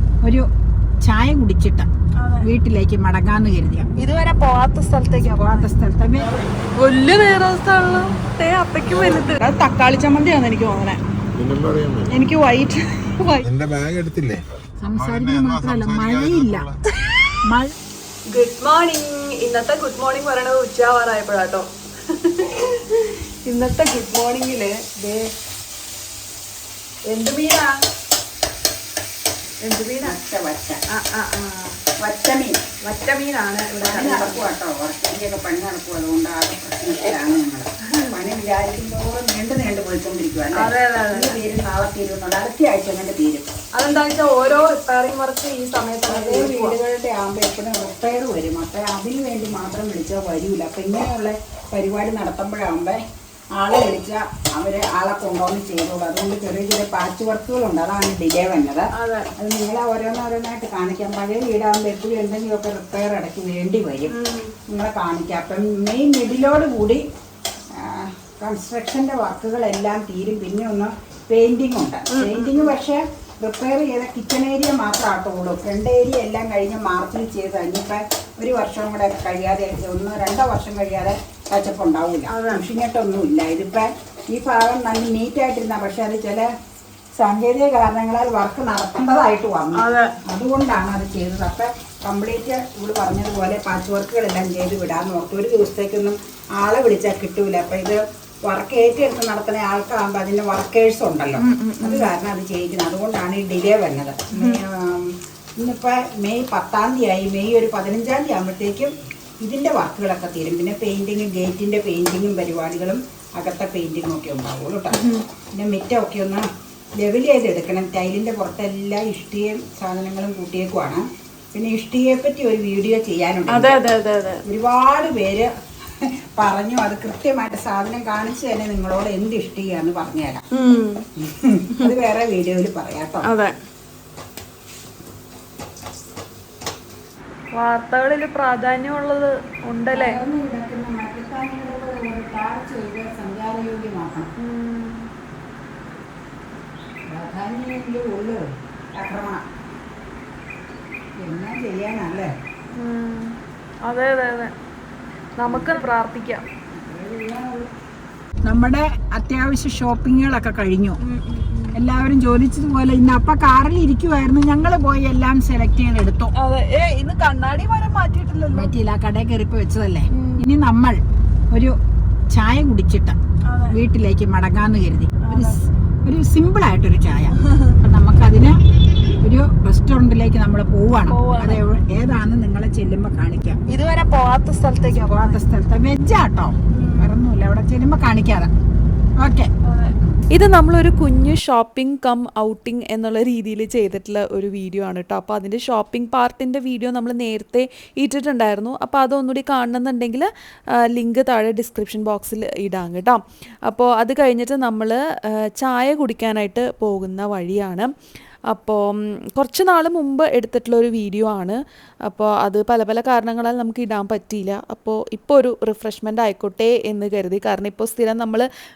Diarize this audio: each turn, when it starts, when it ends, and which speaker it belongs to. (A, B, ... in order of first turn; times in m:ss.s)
0:01.0-0:01.9 A
0:02.2-0:02.5 B
0:02.4-0:03.9 A
0:04.0-0:05.7 B
0:05.2-0:06.3 A
0:06.8-0:11.0 B
0:11.3-0:12.1 C
0:12.1-0:13.4 B
0:13.4-0:16.8 C
0:14.8-0:16.6 A
0:17.5-0:17.7 A
0:18.3-0:25.3 B
0:27.1-0:27.7 B
0:29.6-0:30.2 B
0:30.0-0:30.8 A
0:30.9-0:31.8 B
0:32.0-0:32.6 A
0:32.8-0:34.4 B
0:33.7-0:43.4 A
0:40.5-0:41.4 B
0:43.7-0:46.8 B
0:46.1-0:53.0 A
0:53.6-1:04.1 A
0:58.9-0:59.3 B
1:04.1-1:04.5 B
1:04.7-1:07.0 A
1:07.8-1:26.5 A
1:12.1-1:12.7 B
1:22.3-1:22.6 B
1:27.2-1:55.0 A
1:29.8-1:30.2 B
1:41.4-1:42.1 B
1:44.3-1:44.6 B
1:54.9-1:55.2 B
1:55.5-1:56.4 A
1:57.0-2:03.8 A
2:03.5-2:04.4 B
2:04.4-2:05.5 A
2:06.0-2:10.4 A
2:10.5-2:11.0 B
2:11.2-2:13.3 A
2:13.2-2:13.6 B
2:17.6-2:20.2 B
2:19.9-2:24.3 A
2:24.4-2:25.1 B
2:27.1-2:29.4 A
2:31.2-2:32.3 A
2:32.8-2:34.5 B
2:35.4-2:36.4 B
2:35.5-2:35.8 A
2:36.7-2:37.7 A
2:38.4-2:41.0 A
2:41.0-2:41.8 B
2:41.7-2:46.3 A
2:46.4-2:48.7 B
2:48.5-2:51.0 A
2:50.1-2:50.4 B
2:52.3-2:53.1 A
2:53.5-2:53.8 B
2:53.7-2:58.6 A
2:55.2-2:55.6 B
2:57.4-2:57.8 B
2:59.2-3:03.6 A
3:01.1-3:01.6 B
3:03.7-3:05.4 B
3:05.1-3:08.5 A
3:06.7-3:07.2 B
3:09.2-3:09.5 A
3:09.6-3:09.9 B
3:10.3-3:20.3 D
3:20.9-3:27.9 D
3:28.5-3:38.5 D